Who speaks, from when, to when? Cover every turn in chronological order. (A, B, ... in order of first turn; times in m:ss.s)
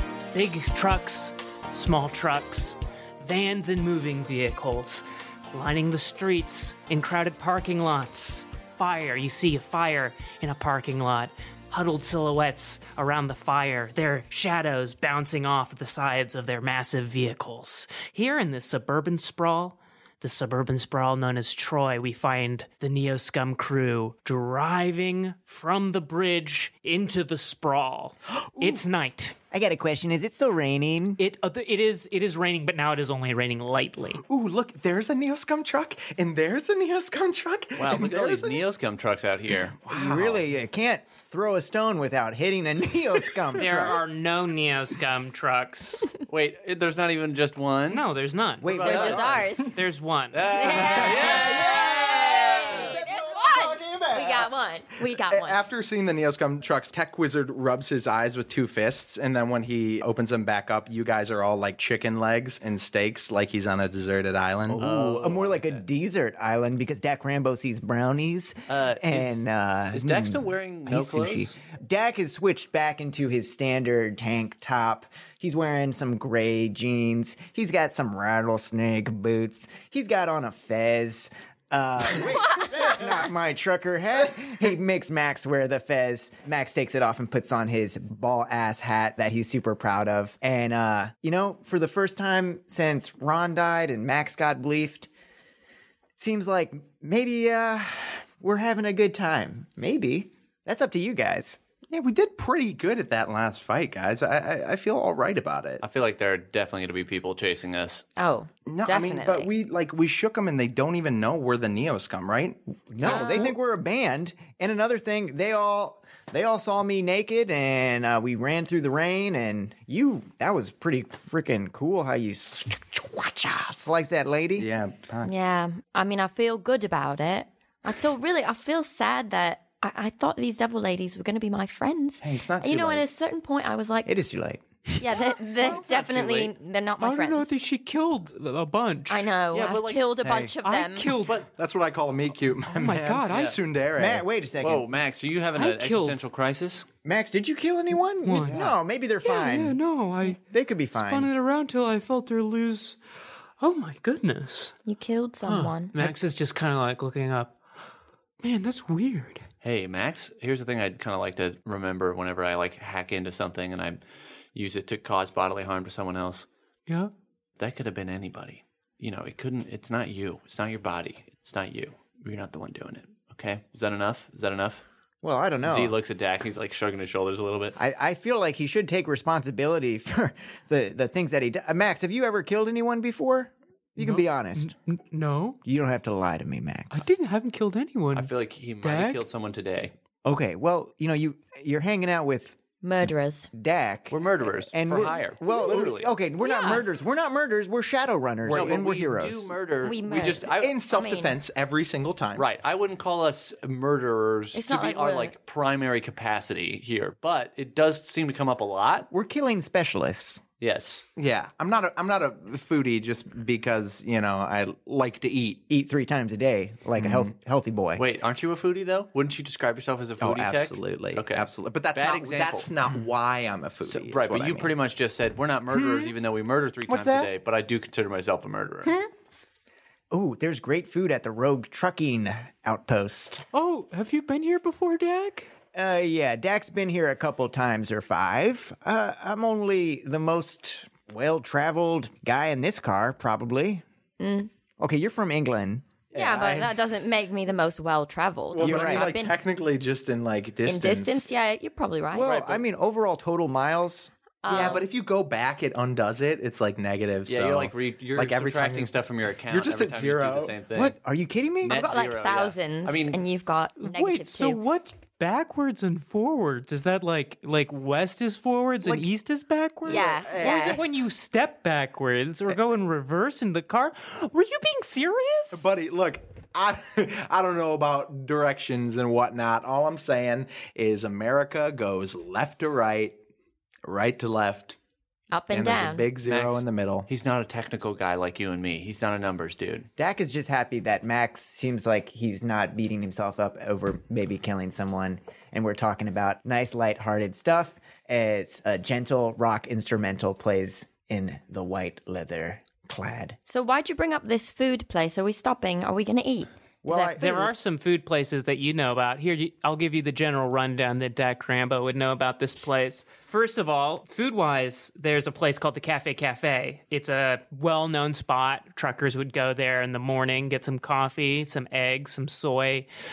0:00.3-0:29.3 A
0:29.5-0:31.2 B
0:31.2-0:34.2 A
0:34.2-0:38.6 C
0:37.8-0:39.8 D
0:39.8-0:40.4 C
0:39.9-0:44.0 B
0:43.6-0:46.1 A
0:46.3-0:48.1 D
0:47.9-0:49.0 A
0:48.6-0:49.5 D
0:48.6-0:49.7 B
0:48.8-0:49.8 E
0:49.6-0:51.1 A
0:50.3-0:52.9 D
0:50.5-0:55.6 E
0:50.7-0:54.5 B
0:55.3-1:04.8 C
1:04.7-1:35.1 B
1:04.8-1:05.8 D
1:08.7-1:11.5 D
1:36.2-1:41.6 B
1:41.9-1:45.8 C
1:45.8-1:48.1 D
1:48.2-1:49.5 E
1:48.7-1:52.6 C
1:52.9-2:04.7 B
1:53.0-1:53.5 A
1:53.1-1:53.5 E
2:04.6-2:05.3 C
2:05.2-2:14.1 E
2:12.2-2:13.0 C
2:14.0-2:14.6 B
2:15.0-2:17.5 E
2:15.7-2:16.5 D
2:17.0-2:19.3 A
2:19.1-2:21.2 E
2:19.5-2:20.1 D
2:20.2-2:20.6 B
2:20.6-2:21.5 A
2:21.4-2:24.2 C
2:22.7-2:23.5 A
2:23.3-2:23.6 D
2:24.0-2:24.9 B
2:24.6-2:26.8 D
2:25.5-2:26.2 A
2:27.0-2:31.3 B
2:28.2-2:28.6 A
2:28.4-2:28.8 C
2:29.2-2:30.4 A
2:30.9-2:33.0 A
2:33.6-2:34.7 A
2:34.8-2:36.1 E
2:35.4-2:37.5 A
2:38.4-2:39.4 A
2:39.6-2:44.0 D
2:44.5-2:46.5 D
2:47.6-2:54.8 D
2:55.2-2:56.0 B
2:55.6-2:57.8 D
2:57.8-3:04.7 B
3:04.0-3:05.6 A
3:05.6-3:07.1 B
3:06.9-3:09.2 A
3:08.1-3:09.9 D
3:10.2-3:12.6 B
3:12.8-3:13.5 E
3:13.5-3:19.6 B
3:14.1-3:16.1 D
3:16.4-3:16.8 E
3:18.5-3:18.8 C
3:18.5-3:20.8 D
3:19.8-3:21.4 E
3:20.4-3:22.5 C
3:22.3-3:29.1 D
3:24.5-3:25.3 E
3:29.1-3:30.4 B
3:30.6-3:31.0 D
3:31.2-3:35.6 C
3:35.7-3:38.0 B
3:37.0-3:37.3 C
3:38.0-3:42.7 D
3:40.2-3:44.7 C
3:43.8-3:49.0 D
3:45.7-3:46.1 C
3:46.9-3:47.3 C
3:50.1-3:53.5 B
3:53.5-3:55.5 A
3:55.7-4:03.8 B
4:04.2-4:04.5 E
4:04.8-4:05.9 B
4:06.1-4:09.4 E
4:06.1-4:06.8 C
4:08.5-4:11.3 C
4:08.6-4:09.1 B
4:10.6-4:12.4 E
4:12.1-4:14.1 B
4:12.3-4:12.6 D
4:14.4-4:14.9 E
4:14.5-4:18.9 C
4:17.2-4:21.0 D
4:19.5-4:20.6 C
4:20.7-4:21.8 B
4:21.6-4:23.2 D
4:21.6-4:24.6 E
4:23.8-4:35.7 A
4:29.8-4:30.8 C
4:29.8-4:30.8 E
4:35.5-4:43.1 C
4:43.8-4:44.8 C
4:45.3-4:46.1 E
4:45.5-4:47.1 C
4:46.2-4:49.9 D
4:50.0-5:03.4 B
5:03.5-5:07.5 E
5:06.8-5:07.2 B
5:07.2-5:22.9 A